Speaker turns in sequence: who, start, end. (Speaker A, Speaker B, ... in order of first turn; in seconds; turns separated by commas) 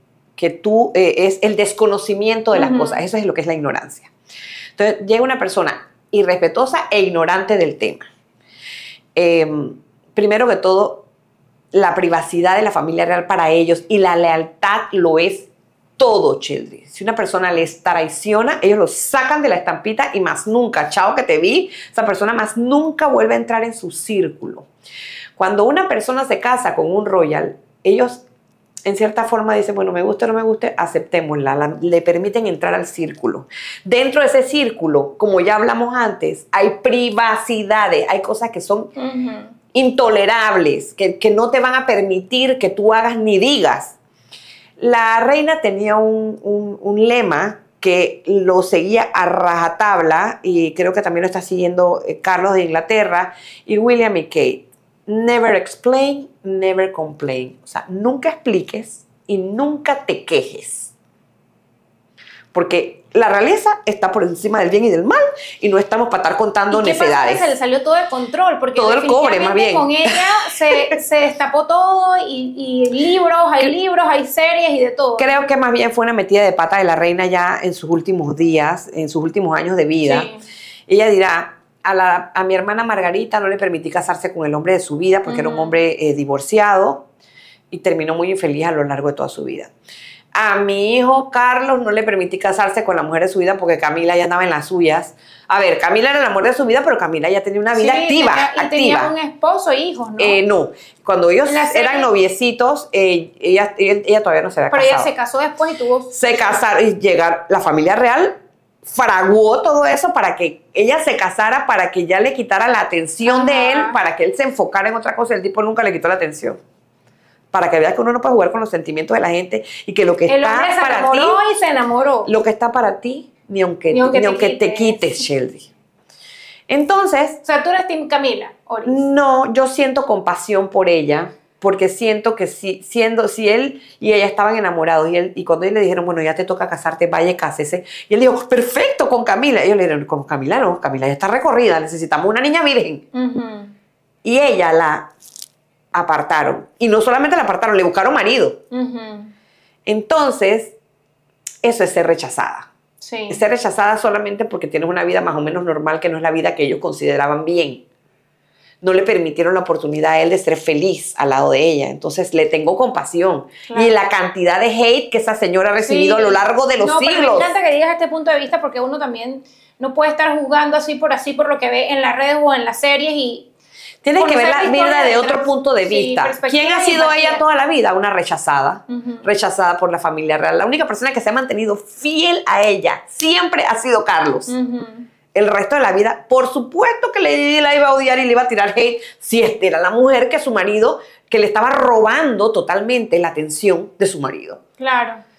Speaker A: 0.4-4.1, Speaker B: 2.5-3.0, Speaker A: 4.8-8.1, Speaker A: 9.2-11.1, Speaker A: 11.7-24.7, Speaker A: 25.4-28.2, Speaker A: 28.9-38.9, Speaker B: 39.0-39.5, Speaker A: 39.7-44.0, Speaker A: 44.8-60.9, Speaker A: 62.5-67.5, Speaker B: 66.7-75.3, Speaker A: 68.8-70.9, Speaker A: 75.2-80.3, Speaker B: 80.1-80.4, Speaker A: 80.9-87.0, Speaker B: 85.3-85.8, Speaker A: 87.7-89.7, Speaker A: 90.3-99.1, Speaker B: 97.8-100.4, Speaker A: 100.2-105.1, Speaker B: 101.5-102.1, Speaker B: 104.7-106.5, Speaker A: 106.1-116.6, Speaker B: 113.2-114.0, Speaker A: 117.5-121.4, Speaker B: 120.3-122.3, Speaker A: 122.3-125.7, Speaker B: 123.9-125.0, Speaker A: 126.7-127.4, Speaker B: 127.5-129.1, Speaker A: 128.8-143.1, Speaker B: 143.1-143.8, Speaker A: 144.2-145.1, Speaker A: 145.9-148.6, Speaker B: 148.7-149.3, Speaker A: 149.9-150.8, Speaker A: 151.6-152.7, Speaker B: 153.0-153.4, Speaker A: 153.3-157.8, Speaker A: 158.8-167.5, Speaker B: 165.8-173.5, Speaker A: 174.0-184.5, Speaker B: 174.2-177.4, Speaker B: 178.9-179.2, Speaker B: 184.5-185.1, Speaker A: 185.3-194.6, Speaker B: 194.8-195.2